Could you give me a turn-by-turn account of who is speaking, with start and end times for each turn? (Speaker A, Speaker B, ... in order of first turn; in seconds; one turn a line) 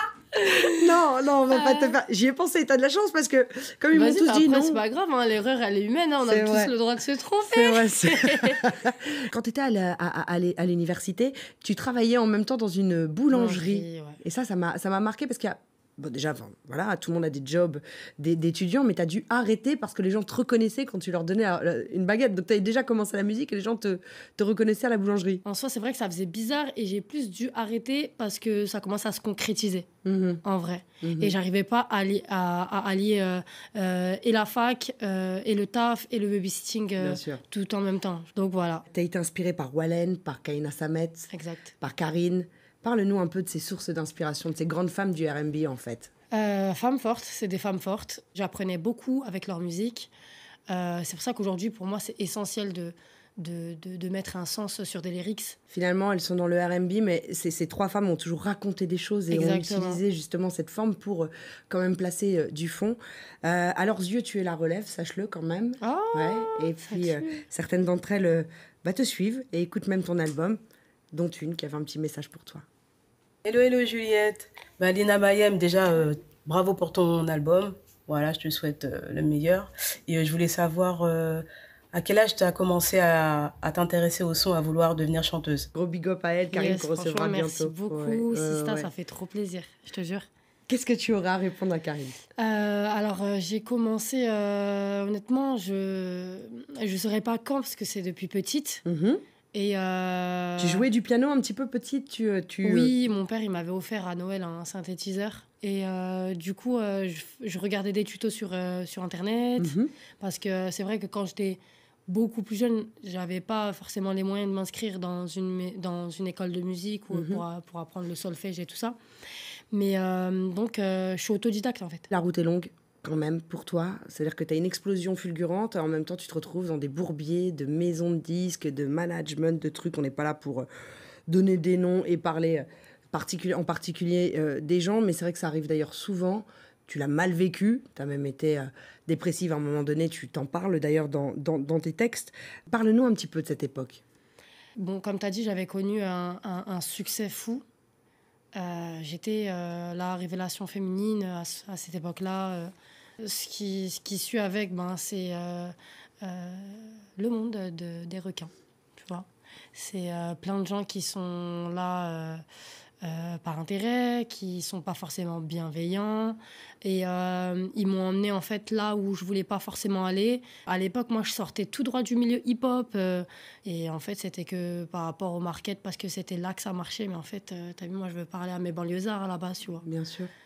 Speaker A: 0.4-4.8
Speaker B: 1.5-1.9
Speaker B: 3.9-8.6
Speaker A: 6.2-6.7
Speaker A: 7.5-25.4
Speaker B: 13.3-14.2
Speaker B: 25.4-29.9
Speaker A: 30.0-30.4
Speaker B: 30.4-38.8
Speaker A: 31.0-31.4
Speaker A: 37.0-37.4
Speaker A: 38.9-41.3
Speaker B: 41.3-41.7
Speaker A: 41.8-46.1
Speaker B: 46.3-50.1
Speaker B: 50.7-55.6
Speaker A: 55.7-70.6
Speaker B: 59.3-60.0
Speaker B: 65.8-67.4
Speaker A: 71.1-72.6
Speaker C: 73.4-85.7
Speaker A: 85.7-88.9
Speaker B: 86.5-90.3
Speaker A: 90.7-92.2
Speaker B: 92.4-98.8
Speaker A: 98.8-99.2
Speaker B: 99.5-100.8
Speaker A: 100.6-102.9
Speaker B: 102.6-119.0
Speaker A: 109.6-109.9
Speaker A: 117.1-117.4
Speaker B: 119.7-122.1
Speaker A: 122.1-130.7
Speaker A: 131.3-144.0
Speaker B: 144.8-147.6
Speaker B: 148.5-162.4
Speaker B: 163.0-179.8
Speaker A: 179.8-180.3